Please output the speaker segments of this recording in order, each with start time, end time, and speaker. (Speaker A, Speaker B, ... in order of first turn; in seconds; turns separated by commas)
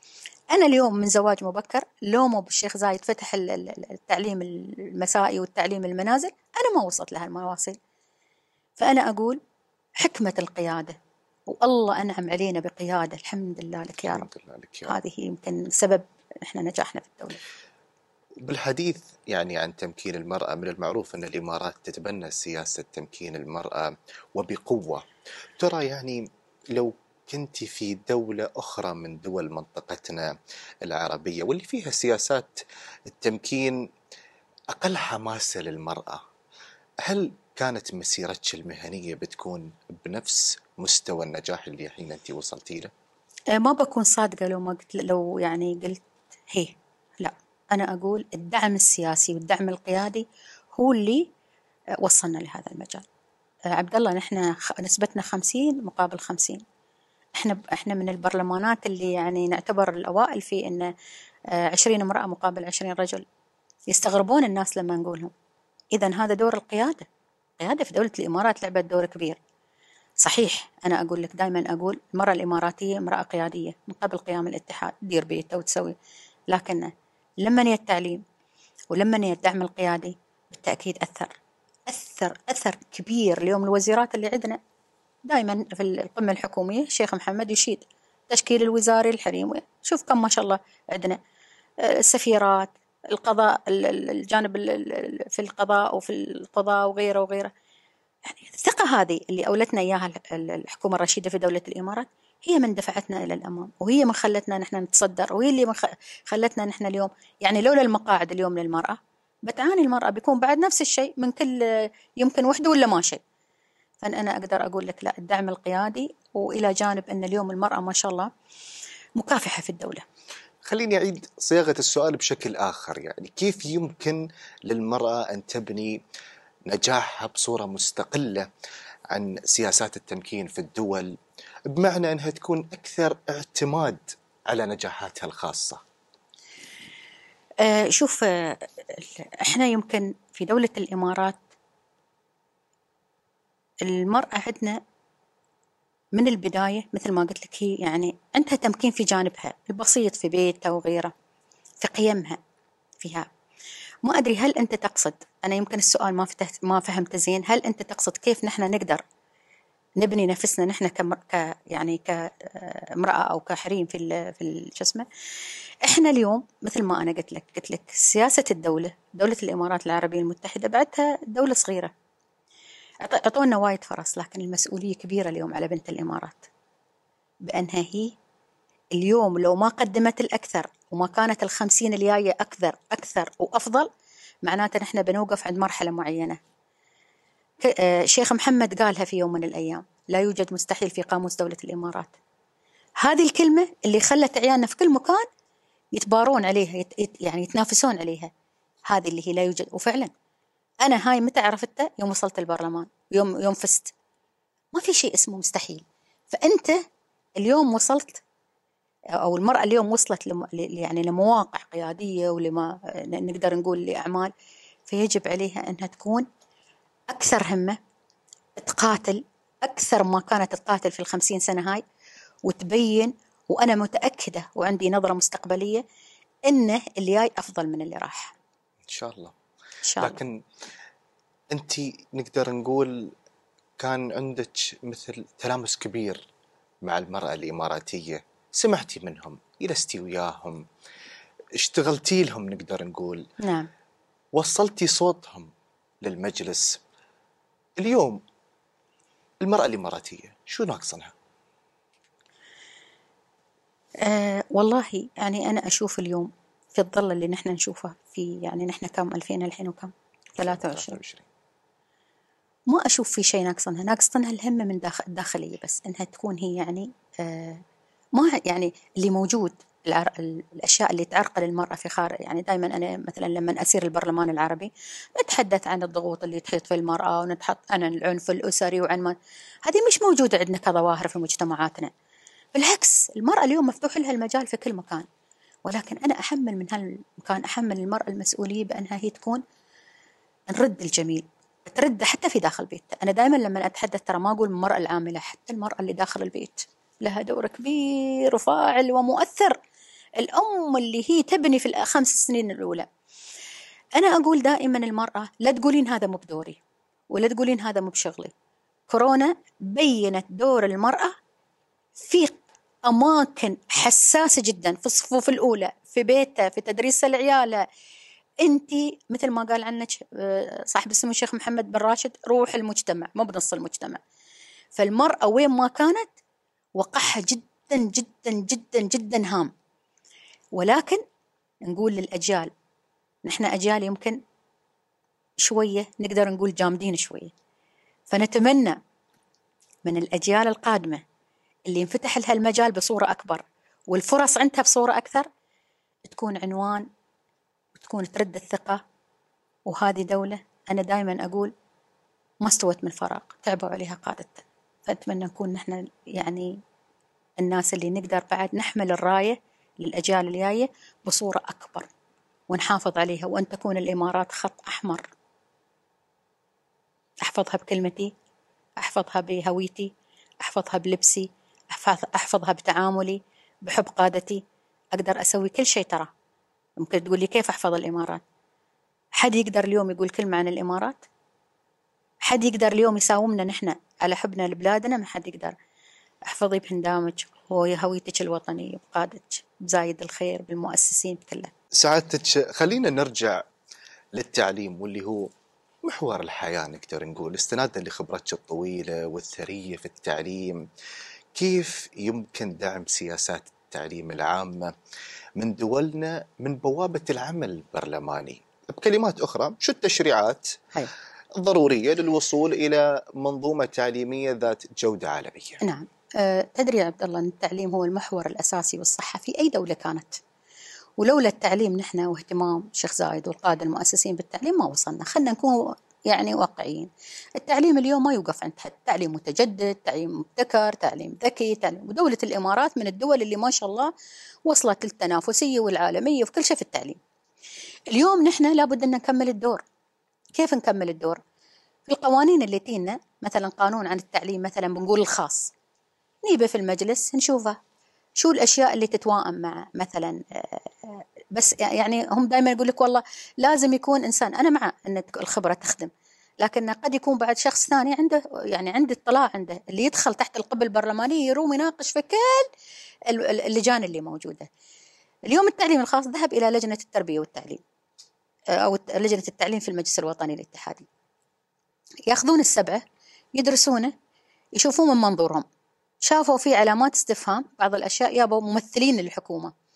Speaker A: 0.5-7.8, Speaker A: 8.8-9.4, Speaker A: 10.0-10.9, Speaker A: 11.5-14.2, Speaker B: 14.1-14.9, Speaker A: 14.9-17.4, Speaker B: 18.4-25.1, Speaker B: 25.6-30.3, Speaker B: 30.8-33.8, Speaker B: 34.7-36.2, Speaker B: 37.0-42.9, Speaker A: 43.5-50.2, Speaker A: 50.8-51.2, Speaker A: 52.0-53.0, Speaker A: 53.7-56.6, Speaker A: 57.4-60.9, Speaker A: 61.5-63.2, Speaker A: 63.9-65.3, Speaker A: 65.9-67.1, Speaker A: 67.6-69.4, Speaker A: 70.2-76.0, Speaker A: 76.5-76.9, Speaker A: 77.4-78.2, Speaker A: 78.9-81.3, Speaker A: 81.9-84.6, Speaker A: 85.2-91.2, Speaker A: 91.8-97.5, Speaker A: 98.2-113.2, Speaker A: 114.0-118.3, Speaker A: 119.2-120.0, Speaker B: 120.7-126.0, Speaker B: 126.7-128.5, Speaker B: 129.1-131.2, Speaker B: 131.8-135.8, Speaker A: 137.6-141.4, Speaker A: 143.8-144.8, Speaker A: 146.2-151.1, Speaker A: 151.8-152.4, Speaker A: 153.0-153.3, Speaker A: 154.0-159.0, Speaker A: 160.0-165.1, Speaker A: 165.8-171.9, Speaker A: 173.0-176.5, Speaker A: 177.4-178.1, Speaker A: 178.9-183.9, Speaker A: 184.4-186.4, Speaker A: 187.6-192.2, Speaker A: 193.0-195.2, Speaker A: 195.9-198.3, Speaker A: 198.9-200.1, Speaker A: 200.8-203.9, Speaker A: 204.7-206.8, Speaker A: 207.4-208.2, Speaker A: 209.2-214.3, Speaker A: 214.9-216.3, Speaker A: 217.1-217.8, Speaker A: 218.6-221.8, Speaker A: 222.4-225.8, Speaker A: 226.5-228.3, Speaker B: 228.9-229.3, Speaker A: 229.8-230.2, Speaker B: 230.0-230.4, Speaker B: 231.5-233.1, Speaker B: 233.8-236.3, Speaker B: 236.9-240.6, Speaker B: 241.6-243.2, Speaker A: 243.4-243.7, Speaker B: 244.4-245.5, Speaker B: 246.0-246.8, Speaker B: 247.8-248.2, Speaker B: 249.4-251.1, Speaker A: 254.0-260.9, Speaker B: 260.4-261.3, Speaker A: 262.7-267.6, Speaker A: 268.1-281.9, Speaker A: 282.5-285.1, Speaker A: 285.6-289.4, Speaker A: 290.5-299.6, Speaker A: 300.2-302.9, Speaker A: 304.0-306.6, Speaker A: 307.1-308.3, Speaker A: 308.9-311.1, Speaker A: 312.0-317.6, Speaker A: 318.4-324.0, Speaker A: 324.8-326.1, Speaker A: 326.8-329.5, Speaker A: 330.6-331.0, Speaker A: 331.7-332.5, Speaker A: 333.2-334.2, Speaker A: 335.4-337.3, Speaker A: 338.1-338.8, Speaker A: 339.8-341.0, Speaker A: 341.7-345.3, Speaker A: 346.1-346.9, Speaker A: 347.8-348.8, Speaker A: 349.7-351.5, Speaker A: 352.4-356.5, Speaker A: 357.4-361.9, Speaker A: 362.5-365.0, Speaker A: 367.2-368.1, Speaker A: 368.8-369.9, Speaker A: 370.4-374.4, Speaker A: 374.9-376.1, Speaker A: 376.8-378.2, Speaker A: 379.2-381.0, Speaker A: 382.2-385.6, Speaker A: 386.3-391.5, Speaker B: 391.8-393.4, Speaker B: 394.2-395.3, Speaker B: 395.9-400.6, Speaker B: 401.4-404.7, Speaker B: 405.4-410.6, Speaker B: 411.4-415.6, Speaker A: 415.6-420.2, Speaker A: 421.0-433.9, Speaker A: 434.5-437.0, Speaker A: 437.9-439.6, Speaker A: 440.3-441.2, Speaker A: 441.9-445.5, Speaker A: 446.2-447.6, Speaker A: 448.2-455.9, Speaker A: 456.4-462.5, Speaker A: 463.1-464.5, Speaker A: 465.3-467.6, Speaker A: 468.6-470.9, Speaker A: 472.1-472.8, Speaker A: 473.4-473.9, Speaker A: 474.6-475.4, Speaker A: 476.0-479.5